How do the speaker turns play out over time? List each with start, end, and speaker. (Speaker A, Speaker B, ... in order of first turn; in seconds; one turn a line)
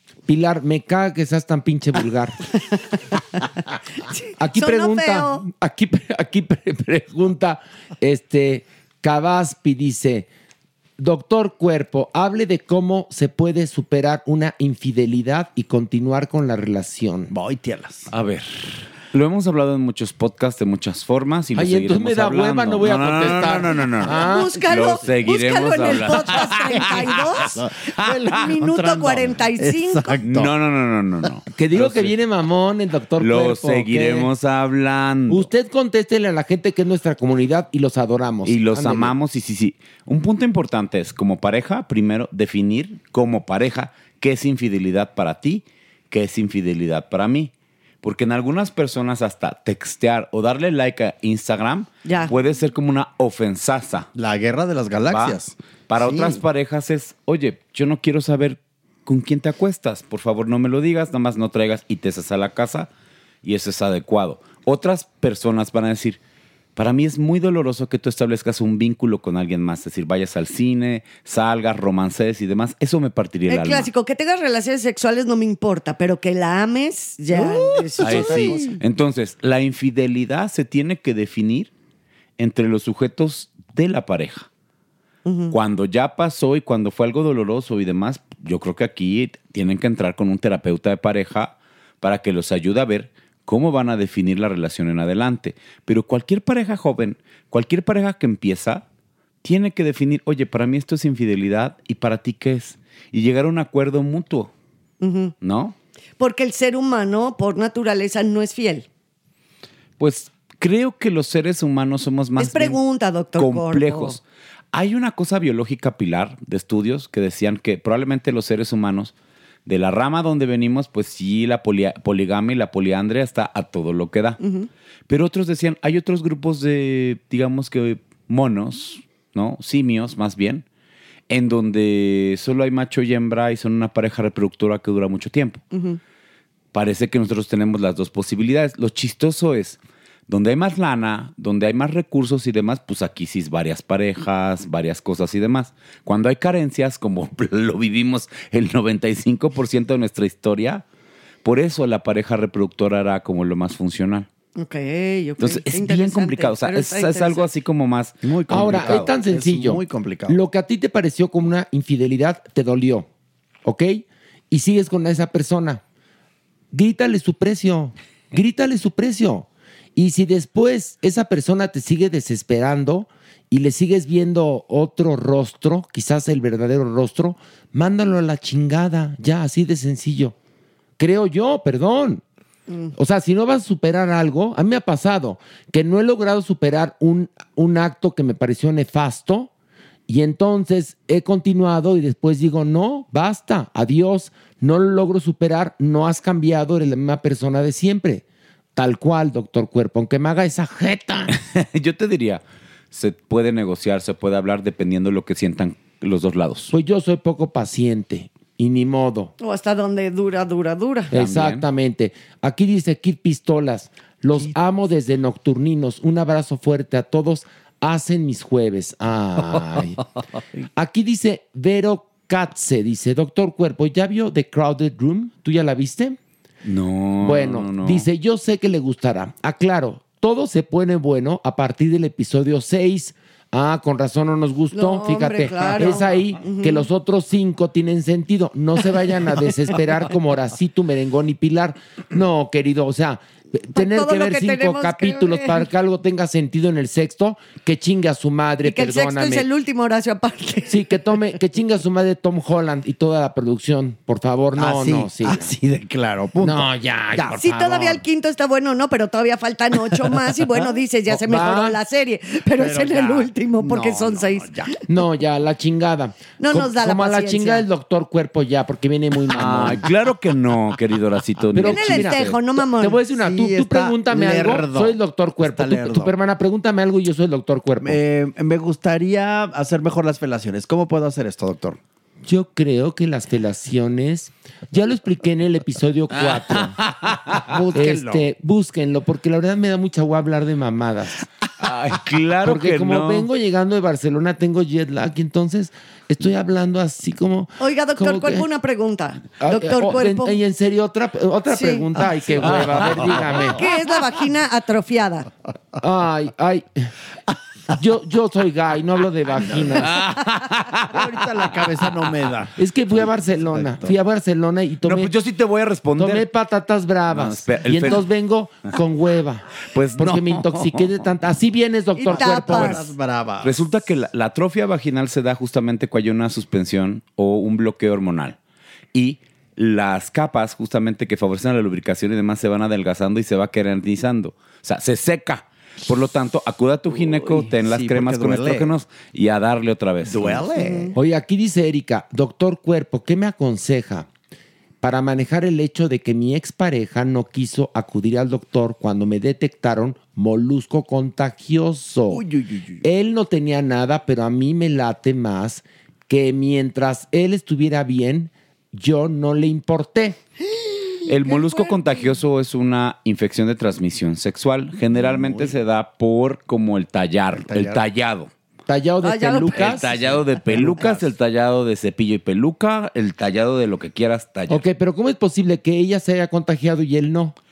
Speaker A: 0.3-2.4
Speaker B: 4.1-5.4
Speaker A: 4.4-10.3
Speaker A: 11.0-17.3
Speaker C: 17.3-18.1
Speaker D: 18.1-27.2
Speaker A: 21.5-24.6
Speaker B: 24.0-27.6
Speaker C: 24.7-25.1
Speaker C: 25.8-30.6
Speaker B: 28.3-30.2
Speaker D: 30.2-32.1
Speaker A: 31.5-34.3
Speaker D: 33.2-35.5
Speaker A: 35.3-39.2
Speaker D: 38.5-54.1
Speaker B: 52.0-52.3
Speaker C: 54.1-56.4
Speaker D: 55.1-62.9
Speaker D: 63.4-66.2
Speaker D: 66.8-73.9
Speaker B: 73.5-78.8
Speaker C: 77.3-78.8
Speaker D: 78.0-81.7
Speaker D: 82.4-84.5
Speaker B: 85.2-85.5
Speaker D: 85.5-98.8
Speaker D: 99.4-104.5
Speaker B: 105.0-105.3
Speaker D: 105.4-105.8
Speaker B: 106.2-108.9
Speaker D: 110.0-112.8
Speaker B: 112.4-114.2
Speaker D: 113.4-114.2
Speaker D: 114.7-119.1
Speaker D: 119.7-124.4
Speaker B: 124.4-124.7
Speaker D: 125.1-130.7
Speaker D: 131.3-135.6
Speaker B: 135.7-136.0
Speaker D: 136.7-150.8
Speaker D: 151.4-154.3
Speaker B: 154.6-157.5
Speaker D: 155.4-159.2
Speaker C: 158.2-160.4
Speaker A: 158.5-163.1
Speaker A: 163.6-165.8
Speaker A: 166.7-180.3
Speaker A: 181.0-182.2
Speaker A: 182.9-189.5
Speaker A: 190.1-198.2
Speaker A: 198.8-201.3
Speaker D: 201.3-206.7
Speaker A: 206.7-209.3
Speaker B: 209.4-211.1
Speaker D: 211.1-211.7
Speaker A: 211.1-220.0
Speaker A: 220.8-226.2
Speaker D: 226.7-228.1
Speaker A: 227.2-249.5
Speaker B: 234.7-236.9
Speaker B: 243.8-245.7
Speaker B: 248.6-250.8
Speaker A: 250.7-255.5
Speaker C: 254.6-257.4
Speaker A: 256.4-258.0
Speaker B: 257.3-264.6
Speaker C: 259.9-260.2
Speaker A: 261.1-261.8
Speaker C: 262.5-264.8
Speaker A: 264.9-269.9
Speaker B: 266.4-267.6
Speaker D: 269.3-272.4
Speaker A: 271.5-278.0
Speaker B: 271.6-273.0
Speaker C: 273.1-276.1
Speaker C: 277.8-281.8
Speaker A: 282.2-286.8
Speaker C: 286.2-288.3
Speaker A: 287.7-291.2
Speaker D: 291.6-293.3
Speaker A: 292.4-298.5
Speaker B: 297.6-300.4
Speaker A: 299.4-303.6
Speaker B: 301.5-301.9
Speaker C: 302.4-303.6
Speaker B: 303.3-305.3
Speaker A: 305.8-306.9
Speaker A: 307.7-310.0
Speaker C: 309.5-309.9
Speaker D: 309.9-310.9
Speaker C: 310.9-312.5
Speaker A: 312.6-315.1
Speaker C: 313.5-313.9
Speaker D: 314.8-316.3
Speaker A: 316.0-322.9
Speaker D: 317.1-318.1
Speaker D: 319.7-320.9
Speaker B: 322.0-322.9
Speaker C: 322.1-323.7
Speaker D: 323.4-328.4
Speaker D: 328.9-340.5
Speaker C: 336.9-338.7
Speaker C: 340.0-340.9
Speaker B: 340.6-340.9
Speaker A: 340.9-344.1
Speaker A: 344.8-352.2
Speaker C: 352.1-352.8
Speaker A: 352.8-360.2
Speaker D: 361.1-368.3
Speaker B: 361.1-361.9
Speaker C: 364.9-365.6
Speaker C: 367.3-367.8
Speaker A: 368.7-370.1
Speaker B: 369.0-369.9
Speaker D: 369.5-374.6
Speaker C: 370.0-371.1
Speaker A: 374.5-377.4